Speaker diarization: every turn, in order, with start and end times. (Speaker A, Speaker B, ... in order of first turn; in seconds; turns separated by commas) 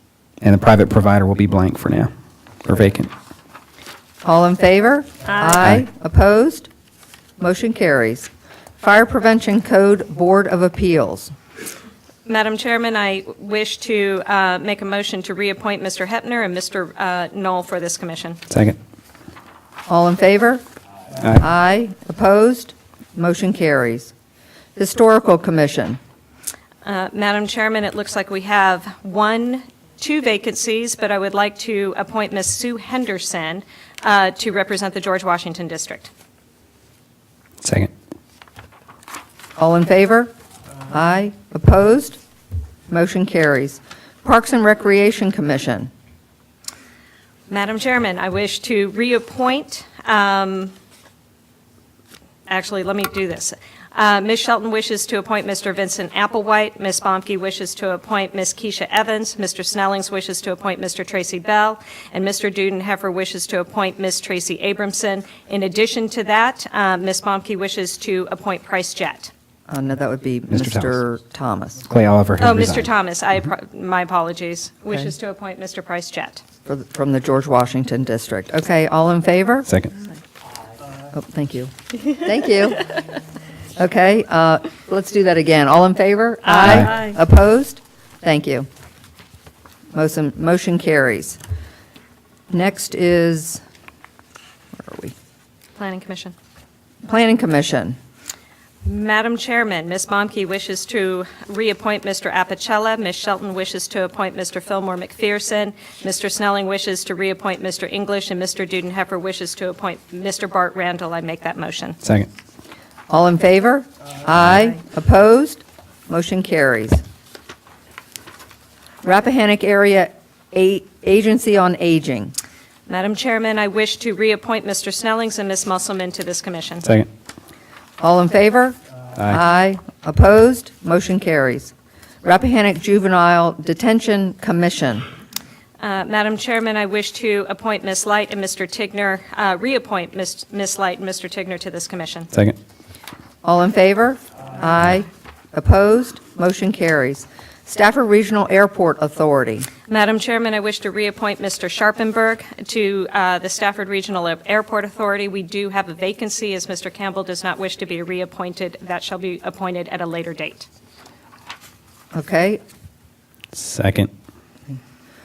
Speaker A: 0.4-2.1, Speaker A: 2.6-3.1, Speaker B: 4.2-6.7, Speaker C: 5.3-5.7, Speaker B: 7.4-11.3, Speaker C: 12.2-18.4, Speaker A: 18.5-18.8, Speaker B: 19.9-20.6, Speaker B: 21.2-24.1, Speaker B: 24.8-26.0, Speaker C: 26.8-36.1, Speaker A: 37.6-37.9, Speaker B: 39.6-40.3, Speaker B: 40.9-42.2, Speaker B: 42.9-45.9, Speaker C: 47.5-50.7, Speaker C: 52.5-69.3, Speaker B: 69.7-71.9, Speaker A: 70.5-71.0, Speaker A: 71.9-72.9, Speaker C: 72.4-76.4, Speaker B: 76.7-79.7, Speaker A: 79.7-79.9, Speaker B: 81.1-82.8, Speaker B: 83.8-88.7, Speaker C: 86.5-87.2, Speaker B: 89.9-91.4, Speaker B: 92.5-93.6, Speaker B: 94.8-95.1, Speaker C: 95.8-96.3, Speaker B: 97.0-98.0, Speaker C: 98.8-112.0, Speaker A: 112.0-112.3, Speaker B: 113.1-117.0, Speaker B: 119.0-122.3, Speaker C: 122.9-126.9, Speaker B: 128.0-131.7, Speaker B: 132.2-135.1, Speaker C: 135.8-142.3, Speaker B: 143.4-149.7, Speaker C: 149.9-160.7, Speaker B: 162.1-162.6, Speaker A: 163.5-164.1